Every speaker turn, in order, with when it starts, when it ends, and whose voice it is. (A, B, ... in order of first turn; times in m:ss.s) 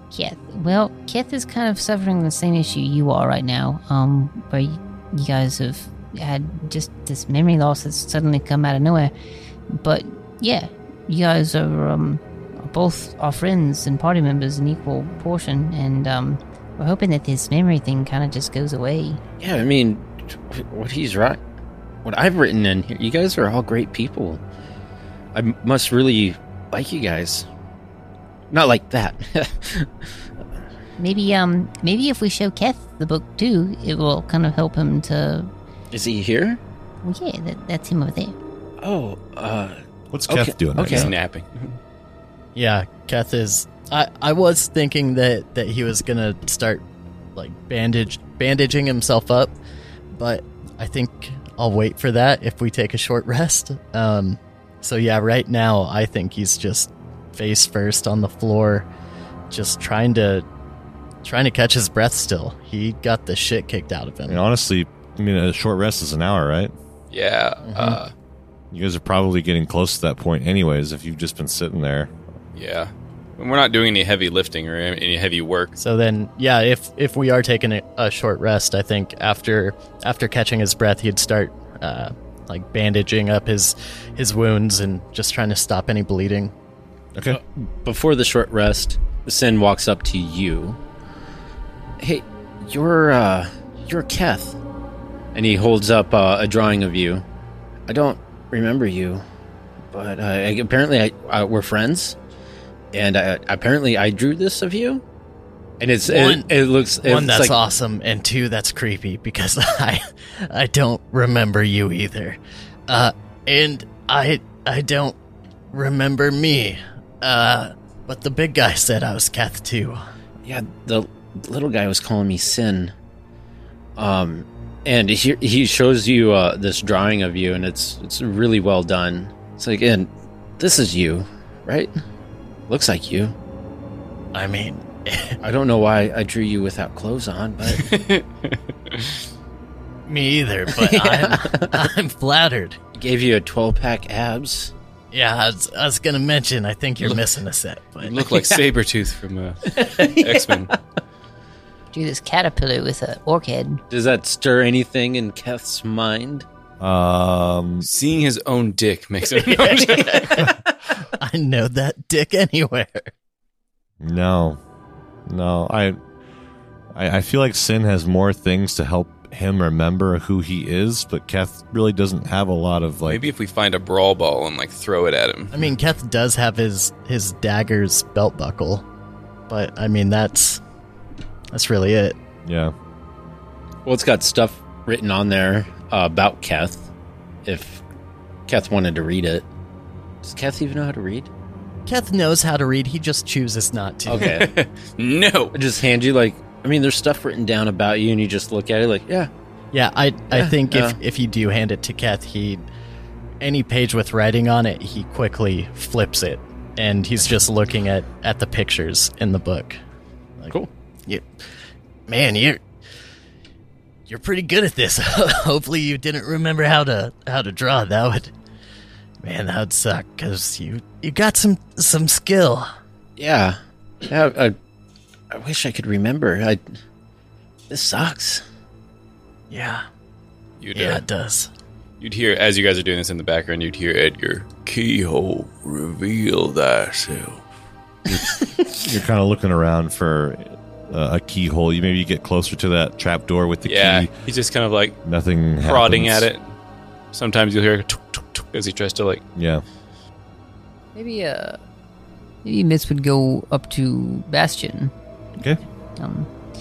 0:00.1-0:09.1 A
0:09.7-0:19.2 A
0:19.4-0:21.4 B
0:22.0-0:24.4 B
0:25.3-0:27.4 B
0:28.5-0:29.9 B
0:31.0-0:35.5 A
0:35.9-0:36.6 B
0:37.0-0:38.4 A
0:38.8-0:41.1 B
0:40.1-0:41.1 C
0:40.8-0:41.8 D
0:42.5-0:46.8 E
0:47.4-0:49.5 E
0:50.1-0:58.9 E
0:59.5-1:00.4 E
1:01.2-1:04.4 E
1:04.3-1:06.7 C
1:07.1-1:08.1 D
1:07.6-1:08.0 E
1:08.7-1:12.1 C
1:12.5-1:15.7 D
1:15.8-1:26.5 E
1:27.1-1:27.4 C
1:27.3-1:30.8 B
1:32.0-1:34.6 B
1:35.3-1:37.2 B
1:37.9-1:39.2 B
1:39.9-1:42.2 B
1:42.9-1:45.0 B
1:45.8-1:47.6 B
1:46.0-1:55.2 E
1:55.7-2:00.0 E
2:00.4-2:02.9 B
2:04.0-2:11.9 B
2:12.7-2:13.3 B
2:14.3-2:15.4 E
2:15.4-2:17.8 B
2:17.7-2:19.2 D
2:20.0-2:22.8 E
2:20.7-2:21.8 B
2:23.0-2:24.7 B
2:25.1-2:28.2 E
2:28.0-2:30.7 D
2:29.7-2:30.7 B
2:31.9-2:33.8 A
2:33.9-2:36.4 B
2:36.8-2:37.9 C
2:37.8-2:40.5 D
2:39.4-2:43.1 E
2:44.0-2:44.6 C
2:45.3-2:46.0 C
2:46.9-2:53.2 C
2:53.1-2:55.5 D
2:55.5-2:58.8 E
2:59.5-3:00.6 E
3:01.5-3:02.2 E
3:02.4-3:02.7 C
3:03.8-3:06.8 B
3:07.4-3:07.8 B
3:08.5-3:09.4 B
3:10.2-3:11.3 B
3:11.9-3:14.4 E
3:14.1-3:14.5 B
3:14.2-3:15.5 D
3:15.5-3:19.3 B
3:19.7-3:22.6 E
3:20.3-3:21.0 B
3:23.4-3:29.8 E
3:32.1-3:32.6 E
3:34.1-3:38.3 E
3:39.2-3:42.7 E
3:43.2-3:44.6 B
3:45.3-3:46.6 B
3:47.7-3:48.4 B
3:49.5-3:49.8 E
3:50.6-3:51.0 D
3:50.7-3:51.5 E
3:52.0-3:57.4 D
3:58.1-4:04.1 C
4:03.6-4:05.0 D
4:05.0-4:06.3 C
4:05.6-4:06.5 D
4:07.1-4:09.2 D
4:09.4-4:09.6 C
4:10.9-4:11.6 F
4:12.4-4:14.9 F
4:16.0-4:16.3 A